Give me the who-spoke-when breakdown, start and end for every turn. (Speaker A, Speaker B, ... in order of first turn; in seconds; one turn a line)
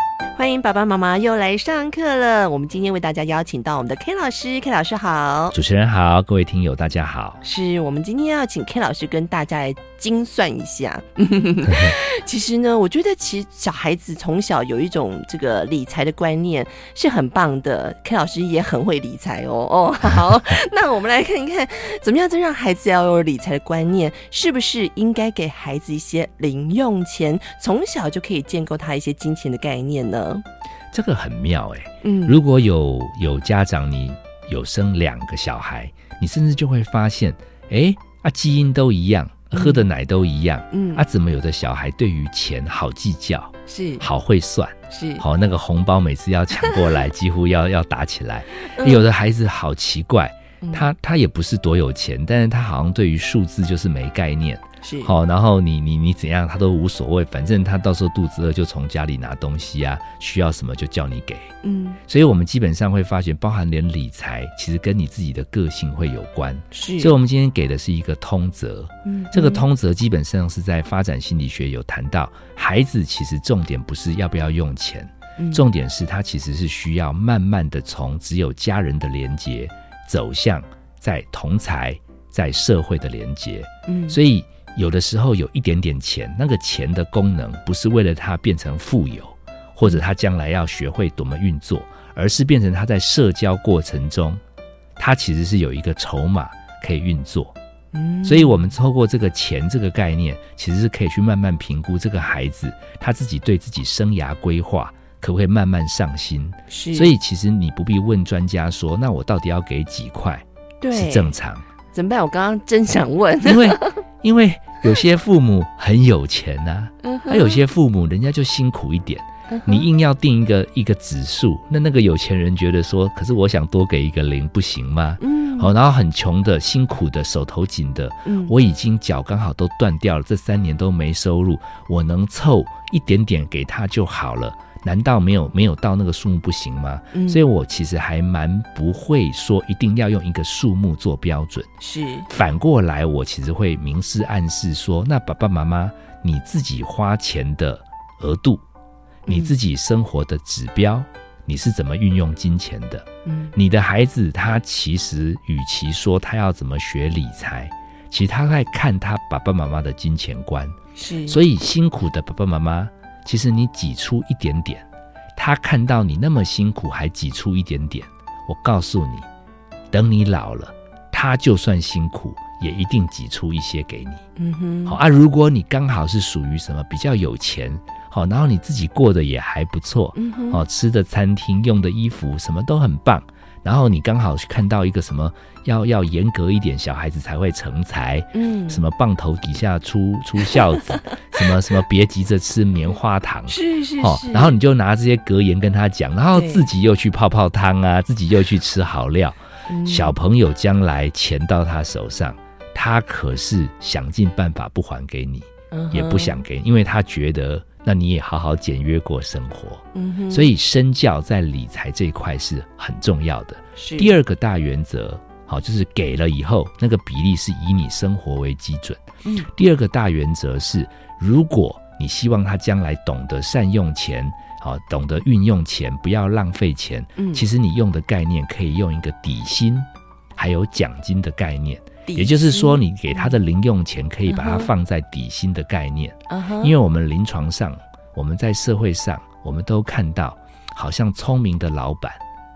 Speaker A: 0.4-5.6
Speaker B: 5.5-7.4
Speaker A: 7.4-30.4
Speaker B: 30.9-61.5
Speaker A: 32.0-32.4
Speaker A: 39.5-39.9
Speaker A: 40.7-41.0
Speaker A: 43.7-44.0
Speaker A: 44.9-45.2
Speaker A: 48.7-49.0
Speaker A: 50.6-50.9
Speaker A: 54.8-55.1
Speaker A: 61.6-62.0
Speaker B: 62.1-94.4
Speaker A: 66.7-67.2
Speaker A: 69.1-69.7
Speaker A: 75.4-75.6
Speaker A: 83.9-84.2
Speaker B: 95.0-97.5
Speaker A: 97.9-98.6
Speaker B: 98.2-111.7
Speaker A: 106.7-107.2
Speaker A: 110.8-111.3
Speaker A: 111.9-114.0
Speaker B: 113.4-141.7
Speaker A: 117.0-117.6
Speaker A: 119.5-119.9
Speaker A: 125.2-125.7
Speaker A: 128.3-128.5
Speaker A: 137.1-137.4
Speaker A: 141.8-142.3
Speaker B: 142.3-148.6
Speaker A: 149.3-149.6
Speaker B: 149.3-164.8
Speaker A: 153.2-153.6
Speaker A: 160.9-161.4
Speaker B: 165.4-169.3
Speaker B: 169.9-174.2
Speaker A: 174.4-175.0
Speaker B: 174.9-242.2
Speaker A: 180.2-180.6
Speaker A: 188.3-188.8
Speaker A: 193.5-194.6
Speaker A: 196.3-196.7
Speaker A: 199.7-200.2
Speaker A: 205.7-206.4
Speaker A: 209.9-210.5
Speaker A: 213.8-214.1
Speaker A: 227.2-227.4
Speaker A: 232.1-233.3
Speaker A: 234.3-234.7
Speaker A: 236.3-236.7